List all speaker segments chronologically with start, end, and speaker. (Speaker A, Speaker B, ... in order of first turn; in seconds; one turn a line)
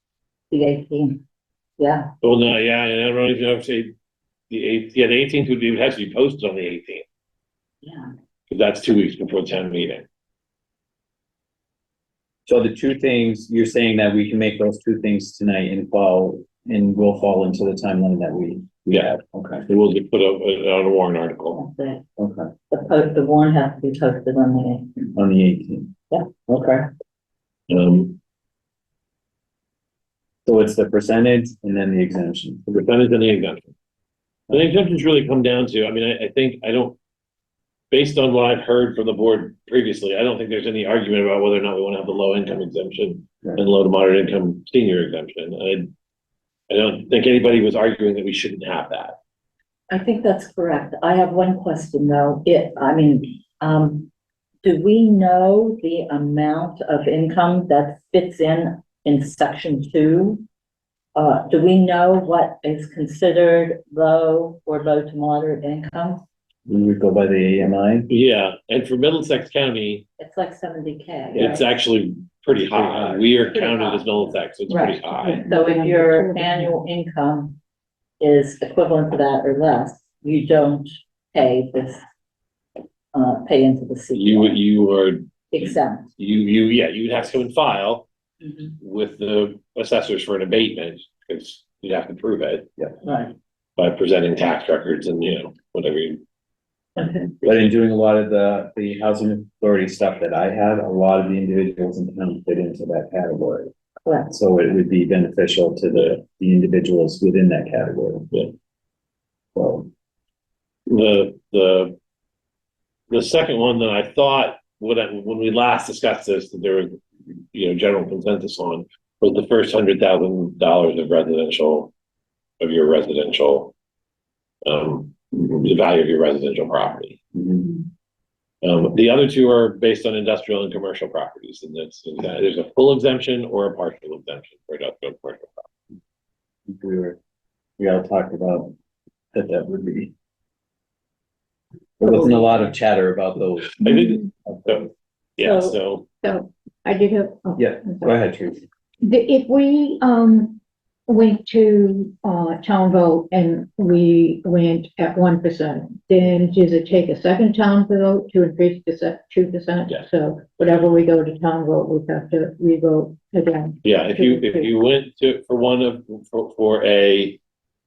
Speaker A: 0.5-1.2
Speaker A: 1.8-2.1
Speaker B: 2.2-3.9
Speaker B: 4.5-7.0
Speaker A: 7.8-8.1
Speaker B: 8.5-10.0
Speaker C: 12.4-19.6
Speaker B: 18.9-19.1
Speaker B: 19.7-21.6
Speaker A: 21.5-22.0
Speaker C: 22.2-22.5
Speaker A: 22.7-25.1
Speaker C: 25.1-25.9
Speaker C: 26.5-26.9
Speaker B: 27.7-28.2
Speaker C: 30.4-32.6
Speaker B: 32.7-33.7
Speaker B: 34.5-37.0
Speaker B: 37.9-45.9
Speaker B: 46.7-49.1
Speaker A: 49.9-54.1
Speaker A: 54.6-60.4
Speaker A: 61.1-66.2
Speaker C: 66.7-68.1
Speaker B: 68.1-70.0
Speaker A: 70.2-71.6
Speaker C: 71.3-71.6
Speaker B: 71.3-75.4
Speaker C: 72.7-73.3
Speaker A: 73.5-77.6
Speaker D: 75.2-76.7
Speaker A: 78.2-82.0
Speaker A: 83.1-84.6
Speaker B: 84.1-88.1
Speaker A: 85.5-86.1
Speaker A: 88.4-88.7
Speaker B: 88.8-92.7
Speaker A: 93.0-93.3
Speaker B: 93.8-96.2
Speaker A: 97.0-97.3
Speaker C: 97.4-103.7
Speaker C: 104.3-108.3
Speaker C: 109.5-109.9
Speaker B: 110.9-112.0
Speaker B: 113.1-121.9
Speaker B: 122.6-123.7
Speaker B: 124.6-127.2
Speaker C: 127.3-127.8
Speaker B: 128.6-135.7
Speaker C: 136.7-137.2
Speaker C: 137.8-138.7
Speaker C: 139.3-140.1
Speaker D: 142.0-142.3
Speaker C: 142.0-143.9
Speaker B: 143.8-146.0
Speaker D: 143.8-144.2
Speaker C: 144.4-144.9
Speaker D: 145.4-145.7
Speaker D: 146.2-148.1
Speaker C: 147.6-148.6
Speaker D: 149.0-164.7
Speaker B: 163.8-167.4